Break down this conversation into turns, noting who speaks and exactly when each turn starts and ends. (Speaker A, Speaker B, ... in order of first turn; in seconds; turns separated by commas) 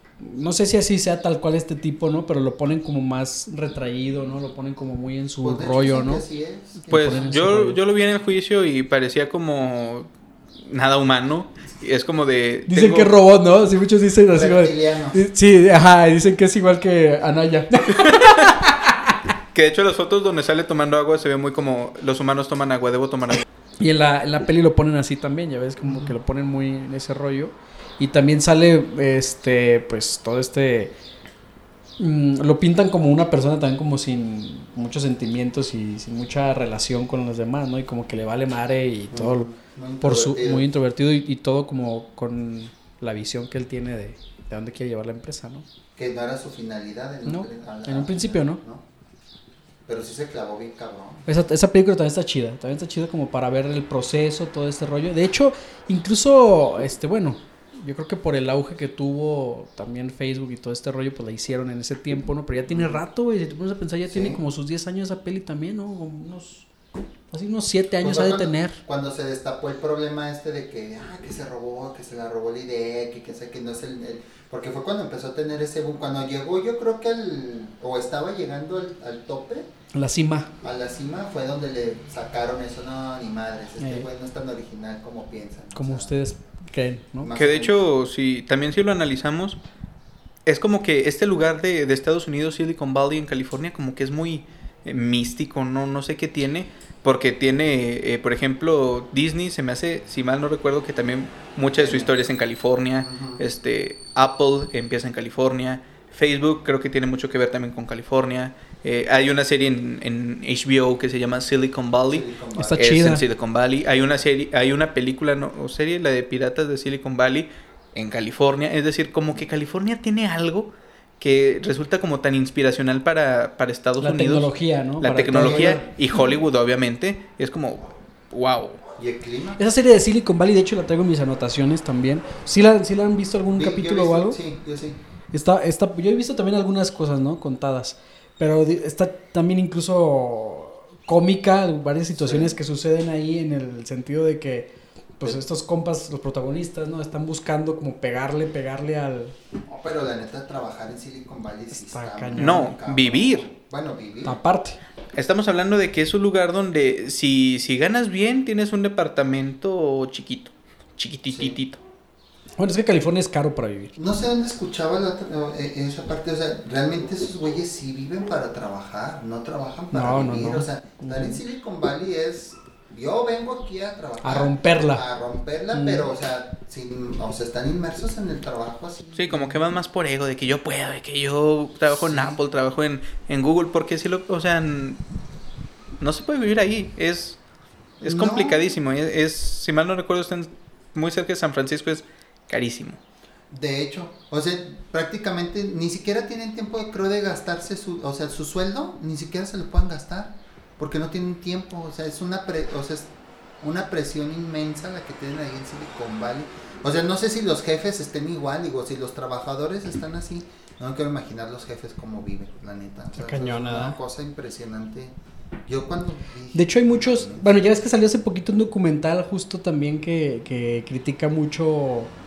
Speaker A: 0.2-6.2, Speaker B: 5.4-7.3, Speaker A: 6.9-7.8, Speaker C: 6.9-10.1, Speaker C: 10.7-13.2, Speaker A: 12.7-19.2, Speaker B: 14.3-15.2, Speaker C: 17.9-18.6, Speaker C: 19.5-23.4, Speaker A: 23.8-30.9, Speaker B: 25.8-26.1, Speaker A: 32.0-45.6, Speaker B: 39.1-40.7, Speaker B: 46.0-48.8, Speaker A: 47.3-48.6, Speaker B: 49.9-51.3, Speaker A: 51.3-66.7, Speaker B: 62.7-63.0, Speaker B: 64.1-64.4, Speaker A: 67.3-68.8, Speaker B: 68.0-79.7, Speaker A: 79.9-80.5, Speaker B: 80.6-86.1, Speaker A: 83.8-84.1, Speaker A: 85.8-87.3, Speaker B: 87.2-87.8, Speaker C: 87.3-89.6, Speaker C: 90.5-112.3, Speaker B: 101.8-102.2, Speaker B: 103.0-103.4, Speaker B: 112.1-112.8, Speaker A: 112.5-113.2, Speaker C: 112.8-128.8, Speaker A: 124.0-125.8, Speaker B: 125.4-126.2, Speaker B: 129.0-129.6, Speaker A: 129.6-134.4, Speaker B: 133.5-135.0, Speaker A: 135.3-149.3, Speaker B: 142.1-142.6, Speaker B: 149.7-154.4, Speaker A: 151.7-152.7, Speaker C: 152.3-153.5, Speaker A: 154.2-154.8, Speaker C: 155.2-161.8, Speaker B: 161.3-161.6, Speaker A: 162.6-163.9, Speaker B: 164.0-179.6, Speaker A: 169.9-171.4, Speaker A: 174.2-175.0, Speaker A: 175.7-176.1, Speaker C: 179.2-185.0, Speaker B: 181.9-182.4, Speaker C: 186.0-187.4, Speaker C: 188.0-193.0, Speaker B: 188.0-188.6, Speaker B: 193.5-215.2, Speaker A: 213.2-214.0, Speaker B: 215.7-217.6, Speaker A: 216.5-222.1